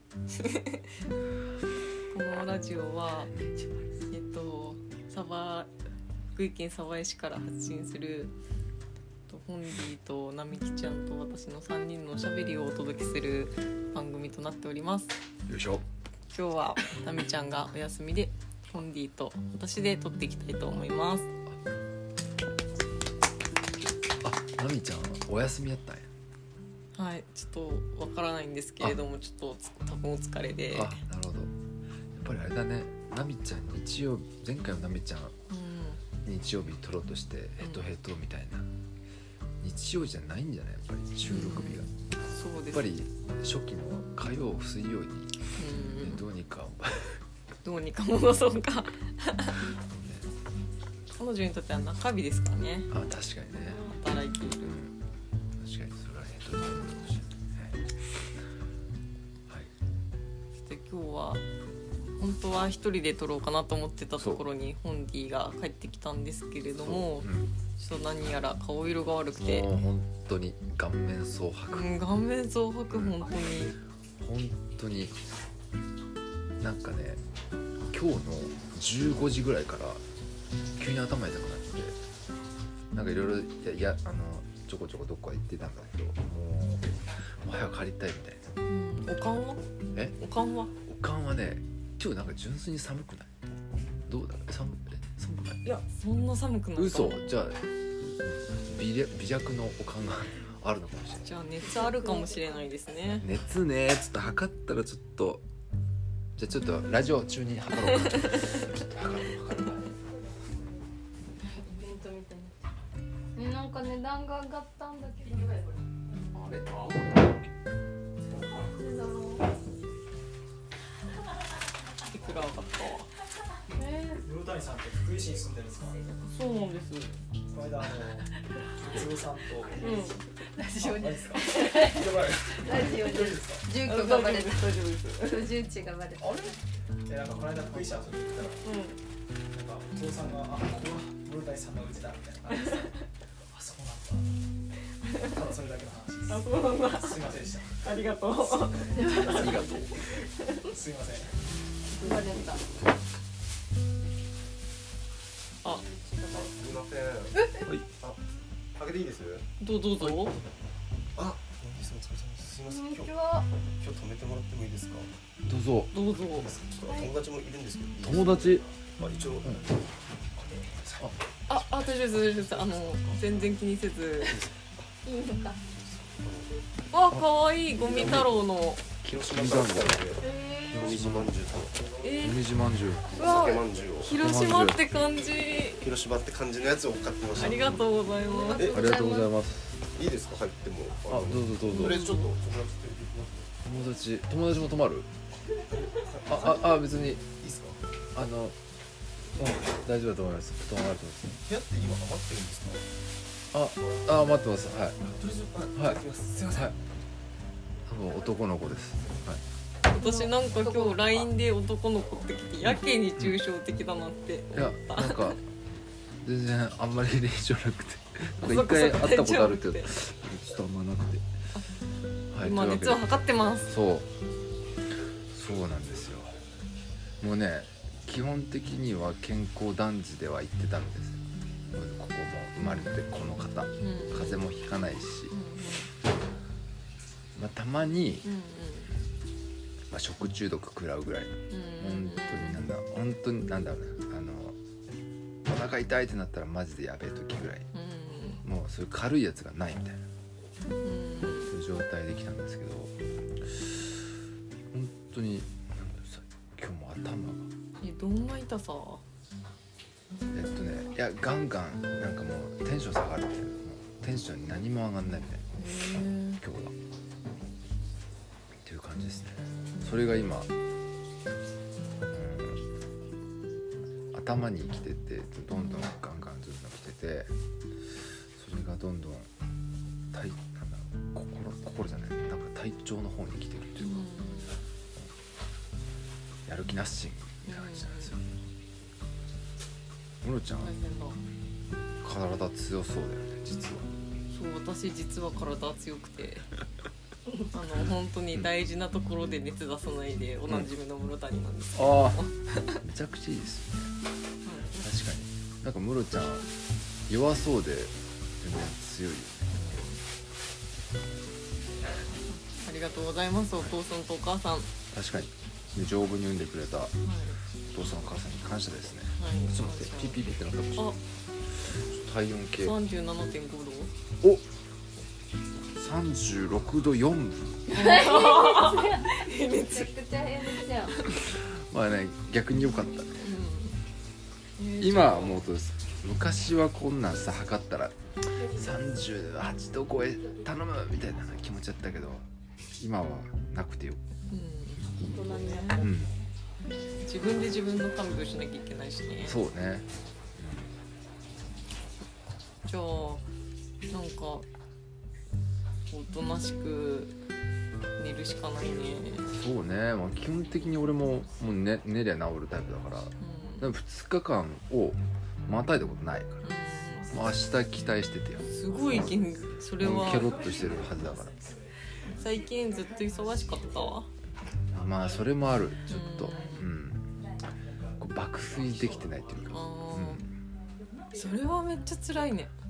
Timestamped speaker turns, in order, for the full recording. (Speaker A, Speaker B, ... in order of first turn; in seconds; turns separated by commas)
Speaker A: 0.3-1.0, Speaker A: 2.1-3.3, Speaker A: 4.1-5.7, Speaker A: 6.3-8.3, Speaker A: 9.3-15.2, Speaker B: 15.5-15.8, Speaker A: 16.3-21.3, Speaker B: 24.2-26.1, Speaker A: 26.9-31.0, Speaker B: 30.7-31.5, Speaker B: 32.1-35.4, Speaker A: 35.5-36.0, Speaker B: 36.2-38.7, Speaker B: 39.6-41.9, Speaker A: 41.3-42.8, Speaker B: 42.7-47.2, Speaker A: 45.6-46.2, Speaker A: 47.6-49.7, Speaker B: 49.8-50.3, Speaker A: 51.1-53.0, Speaker B: 52.9-53.8, Speaker A: 53.6-54.6, Speaker B: 54.4-55.0, Speaker B: 55.6-57.9, Speaker A: 60.6-61.4, Speaker A: 62.1-69.7, Speaker B: 64.2-64.4, Speaker B: 66.8-67.5, Speaker B: 69.4-71.9, Speaker A: 71.7-73.8, Speaker B: 72.9-73.2, Speaker B: 74.2-75.2, Speaker B: 76.6-77.2, Speaker B: 77.9-80.0, Speaker B: 80.8-82.0, Speaker B: 82.9-88.4, Speaker A: 88.7-90.7, Speaker B: 90.8-93.3, Speaker B: 94.1-95.7, Speaker A: 95.6-97.3, Speaker B: 96.8-101.3, Speaker A: 101.2-103.3, Speaker C: 101.6-102.4, Speaker B: 103.2-105.4, Speaker B: 106.4-109.9, Speaker C: 111.4-112.7, Speaker C: 113.3-115.8, Speaker B: 116.3-116.6, Speaker C: 118.5-119.5, Speaker A: 122.1-123.1, Speaker C: 123.8-124.2, Speaker D: 124.2-126.0, Speaker A: 126.1-127.2, Speaker D: 127.5-133.7, Speaker A: 129.8-130.2, Speaker C: 130.3-136.6, Speaker A: 133.7-135.6, Speaker D: 137.1-138.6, Speaker A: 138.6-139.0, Speaker D: 139.5-142.9, Speaker A: 142.6-143.0, Speaker D: 143.5-144.3, Speaker A: 145.0-145.4, Speaker D: 145.2-147.9, Speaker A: 146.3-150.7, Speaker D: 148.7-149.8, Speaker B: 149.3-149.8, Speaker D: 150.6-151.4, Speaker C: 151.9-152.6, Speaker A: 152.0-152.4, Speaker C: 155.9-156.4, Speaker E: 156.2-158.2, Speaker E: 158.8-159.5, Speaker A: 159.6-160.4, Speaker E: 161.2-163.1, Speaker C: 162.7-163.5, Speaker E: 163.8-165.1, Speaker B: 165.4-165.9, Speaker A: 165.9-166.6, Speaker E: 166.2-169.7, Speaker C: 166.8-167.3, Speaker B: 168.0-168.6, Speaker D: 170.4-173.5, Speaker A: 171.5-174.4, Speaker E: 174.3-174.8, Speaker C: 175.0-175.6, Speaker E: 175.7-176.5, Speaker A: 176.9-178.8, Speaker B: 177.1-178.4, Speaker E: 177.8-178.2, Speaker B: 179.0-180.1, Speaker E: 179.0-182.1, Speaker C: 180.2-180.9, Speaker B: 180.7-181.3, Speaker A: 182.0-182.4, Speaker B: 182.2-183.2, Speaker E: 183.1-184.2, Speaker A: 183.2-185.9, Speaker B: 184.1-184.8, Speaker E: 185.7-187.8, Speaker A: 187.3-188.8, Speaker B: 187.4-187.8, Speaker C: 188.2-189.3, Speaker E: 188.5-188.9, Speaker B: 188.7-189.8, Speaker E: 189.9-193.5, Speaker B: 191.1-192.0, Speaker A: 191.7-192.3, Speaker B: 193.7-195.1, Speaker E: 195.7-197.8, Speaker B: 196.3-197.2, Speaker B: 198.2-198.6, Speaker B: 199.4-201.4, Speaker E: 201.4-202.8, Speaker B: 203.5-205.0, Speaker E: 205.0-206.7, Speaker B: 205.8-206.0, Speaker B: 207.9-209.4, Speaker A: 209.9-215.4, Speaker C: 209.9-211.1, Speaker B: 214.5-215.4, Speaker B: 216.2-221.2, Speaker A: 218.4-219.9, Speaker B: 222.3-223.1, Speaker A: 222.4-223.7, Speaker B: 223.7-224.1, Speaker B: 225.3-226.3, Speaker B: 227.2-231.2, Speaker B: 231.7-235.3, Speaker A: 232.6-232.9, Speaker A: 233.8-234.4, Speaker A: 235.3-235.9, Speaker B: 237.4-238.3, Speaker A: 238.2-238.9, Speaker B: 239.9-244.6, Speaker A: 241.5-242.7, Speaker B: 245.5-247.7, Speaker A: 247.7-248.4, Speaker B: 248.4-250.0, Speaker A: 250.8-251.5, Speaker B: 251.5-254.1, Speaker B: 254.7-257.5, Speaker A: 257.8-259.0, Speaker B: 260.3-265.4, Speaker A: 265.6-266.4, Speaker B: 266.4-266.7, Speaker B: 268.6-270.5, Speaker B: 272.1-272.6, Speaker B: 274.1-277.3, Speaker B: 278.3-279.3, Speaker B: 280.1-284.1, Speaker A: 283.8-284.6, Speaker B: 286.5-288.3, Speaker A: 287.4-288.2, Speaker B: 290.2-290.8, Speaker A: 290.6-291.2, Speaker B: 292.0-293.9, Speaker A: 294.3-296.5, Speaker A: 297.5-302.8, Speaker B: 301.7-302.3, Speaker B: 302.8-303.9, Speaker A: 304.4-304.9, Speaker B: 304.8-306.5, Speaker B: 307.1-309.8, Speaker A: 309.6-310.0, Speaker A: 312.3-314.7, Speaker B: 314.9-317.0, Speaker A: 317.0-317.4, Speaker B: 317.7-321.0, Speaker A: 319.2-320.2, Speaker B: 321.6-322.8, Speaker A: 322.6-323.9, Speaker B: 325.8-327.8, Speaker A: 327.7-329.9, Speaker C: 327.7-331.0, Speaker A: 330.6-331.2, Speaker B: 331.2-333.4, Speaker A: 333.2-333.8, Speaker A: 334.6-335.4, Speaker B: 334.8-342.3, Speaker B: 342.8-344.0, Speaker A: 344.3-345.9, Speaker C: 345.1-345.9, Speaker B: 345.8-346.1, Speaker A: 347.1-349.4, Speaker B: 349.2-350.7, Speaker A: 352.6-353.3, Speaker A: 353.9-354.5, Speaker A: 355.9-357.2, Speaker A: 358.0-359.3, Speaker B: 359.3-366.5, Speaker A: 363.2-363.7, Speaker A: 366.4-367.2, Speaker D: 366.8-367.6, Speaker B: 367.1-369.2, Speaker A: 368.4-370.4, Speaker D: 368.5-371.9, Speaker B: 369.8-371.4, Speaker A: 372.1-374.1, Speaker B: 374.7-377.2, Speaker D: 375.0-375.2, Speaker A: 375.9-376.7, Speaker D: 377.5-379.7, Speaker B: 378.0-380.4, Speaker A: 379.5-380.3, Speaker A: 381.1-382.5